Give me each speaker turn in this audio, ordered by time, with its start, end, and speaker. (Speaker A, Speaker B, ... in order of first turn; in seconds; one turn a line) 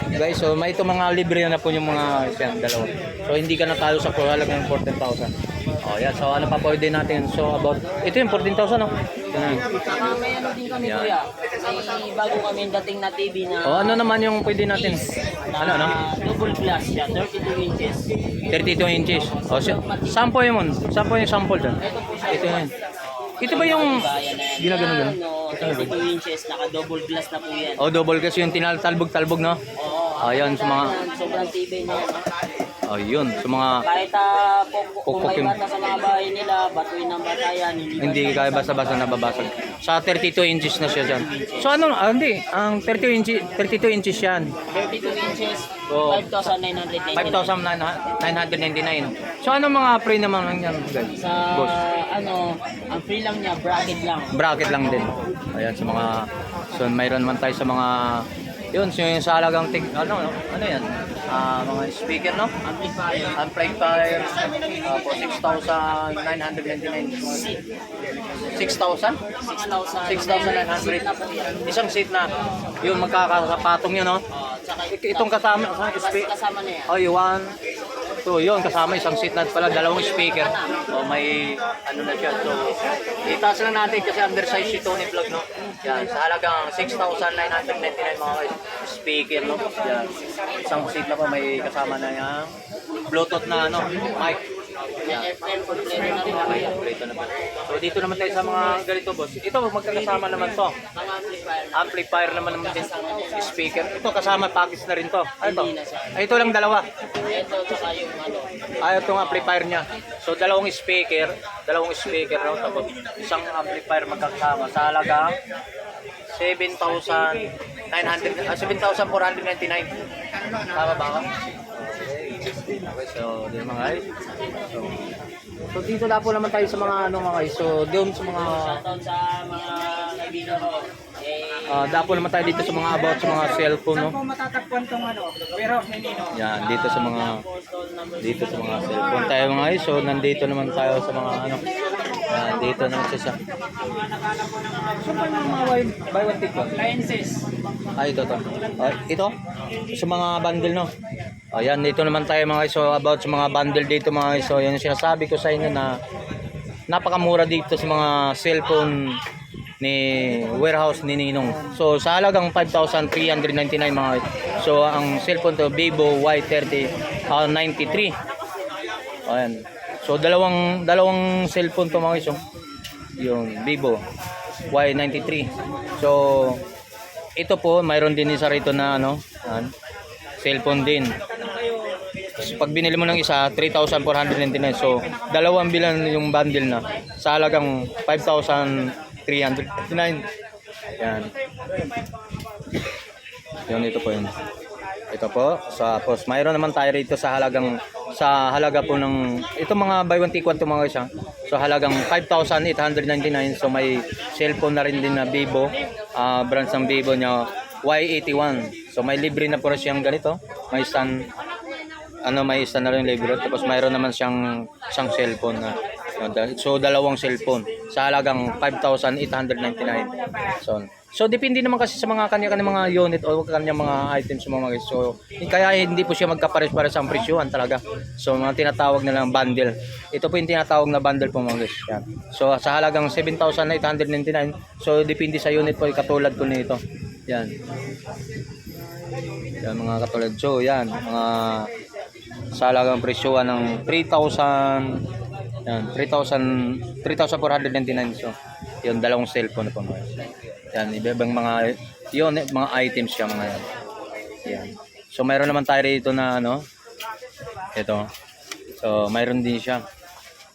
Speaker A: 0.1-5.3
Speaker A: 5.8-9.7
Speaker B: 9.7-14.1
Speaker A: 10.8-11.2
Speaker A: 13.7-15.0
Speaker B: 14.7-20.2
Speaker A: 15.6-15.9
Speaker A: 18.5-22.7
Speaker B: 21.8-22.7
Speaker B: 23.3-27.8
Speaker A: 23.4-24.0
Speaker A: 24.6-25.9
Speaker A: 27.8-29.6
Speaker B: 29.8-32.3
Speaker A: 30.2-31.0
Speaker A: 32.9-33.8
Speaker B: 33.8-39.7
Speaker A: 35.1-35.5
Speaker A: 38.0-44.5
Speaker B: 40.8-41.8
Speaker B: 44.7-47.6
Speaker A: 45.9-46.5
Speaker A: 47.1-51.8
Speaker B: 51.2-54.3
Speaker A: 54.3-62.5
Speaker B: 62.6-63.4
Speaker A: 63.4-67.5
Speaker B: 67.3-67.6
Speaker A: 68.5-69.2
Speaker B: 69.4-71.6
Speaker A: 70.1-71.1
Speaker A: 71.6-72.3
Speaker A: 72.8-74.2
Speaker B: 74.3-76.9
Speaker A: 74.9-76.3
Speaker A: 76.9-77.5
Speaker A: 78.2-82.7
Speaker B: 80.2-80.8
Speaker A: 83.2-92.5
Speaker A: 93.1-94.4
Speaker B: 95.1-96.9
Speaker A: 96.2-100.8
Speaker B: 100.9-103.8
Speaker A: 101.7-106.9
Speaker B: 105.4-106.3
Speaker B: 107.2-109.6
Speaker A: 108.8-115.3
Speaker A: 116.3-119.9
Speaker A: 120.7-124.0
Speaker A: 124.7-125.1
Speaker A: 125.7-128.8
Speaker B: 128.4-133.0
Speaker A: 131.7-134.2
Speaker C: 132.9-136.4
Speaker A: 136.3-137.4
Speaker B: 136.5-140.8
Speaker A: 138.2-141.6
Speaker C: 138.9-139.3
Speaker A: 142.3-143.4
Speaker C: 143.8-146.0
Speaker A: 145.0-146.8
Speaker C: 146.6-147.4
Speaker A: 148.0-149.3
Speaker A: 149.9-150.9
Speaker A: 151.5-156.0
Speaker A: 156.9-159.2
Speaker A: 159.8-168.1
Speaker A: 169.3-172.4
Speaker A: 173.2-174.0
Speaker A: 174.7-176.6
Speaker A: 177.4-179.7
Speaker A: 180.4-181.1
Speaker A: 182.4-190.3
Speaker A: 191.0-191.3
Speaker A: 193.7-194.3
Speaker A: 195.1-211.2
Speaker A: 212.3-237.5
Speaker A: 239.6-241.7
Speaker A: 242.6-245.0
Speaker A: 245.7-253.7
Speaker A: 254.4-256.6
Speaker A: 257.8-258.1
Speaker A: 258.7-259.8